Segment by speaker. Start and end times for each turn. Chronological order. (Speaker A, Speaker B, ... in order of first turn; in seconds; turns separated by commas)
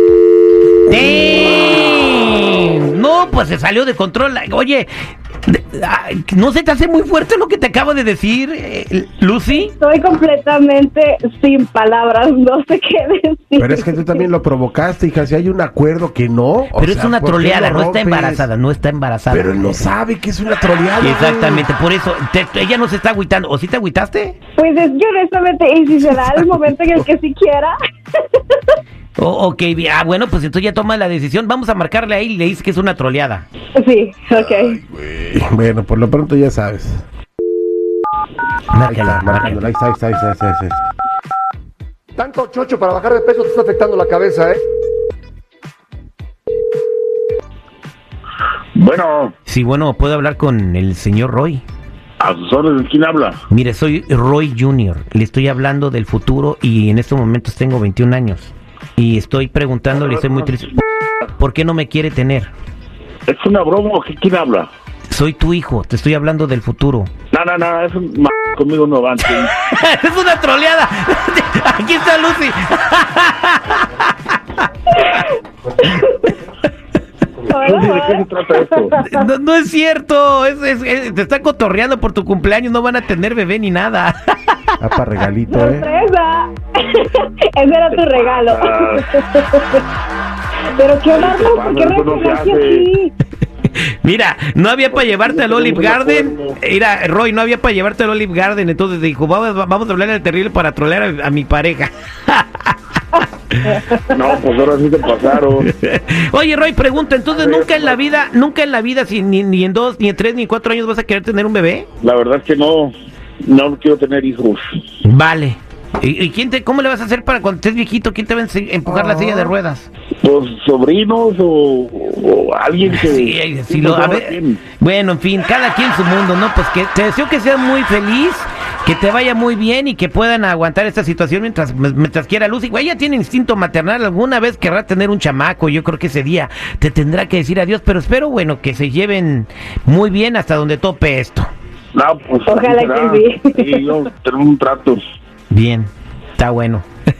Speaker A: 0.9-4.9, Speaker A: 5.5-9.7, Speaker B: 9.6-14.2, Speaker C: 13.6-18.5, Speaker A: 16.8-19.9, Speaker C: 19.3-21.7, Speaker A: 21.0-24.4, Speaker B: 24.6-27.7, Speaker A: 29.2-33.5, Speaker B: 33.8-34.8, Speaker C: 35.1-37.0, Speaker A: 38.7-39.6, Speaker C: 38.9-40.8, Speaker D: 42.2-44.5, Speaker E: 48.8-49.3, Speaker A: 49.5-51.6, Speaker E: 52.2-53.4, Speaker A: 53.5-60.8, Speaker A: 61.4-62.5, Speaker E: 63.3-64.7, Speaker A: 65.1-67.1, Speaker E: 67.3-69.5, Speaker A: 69.2-75.0, Speaker B: 75.8-76.3, Speaker B: 77.5-79.2, Speaker E: 77.6-78.9, Speaker A: 79.0-84.6, Speaker C: 84.8-85.9, Speaker B: 85.5-89.8, Speaker E: 87.9-89.0, Speaker B: 90.8-93.1, Speaker E: 91.1-92.9, Speaker A: 94.0-102.8, Speaker E: 94.9-96.6, Speaker B: 103.7-104.4, Speaker E: 104.1-105.7, Speaker A: 105.6-111.9, Speaker E: 107.3-108.0, Speaker E: 112.0-112.9, Speaker E: 113.4-114.6, Speaker A: 115.0-119.9, Speaker C: 118.8-119.5, Speaker E: 120.2-124.6, Speaker A: 122.8-141.5, Speaker E: 141.9-145.0, Speaker B: 142.5-143.9, Speaker A: 145.5-146.8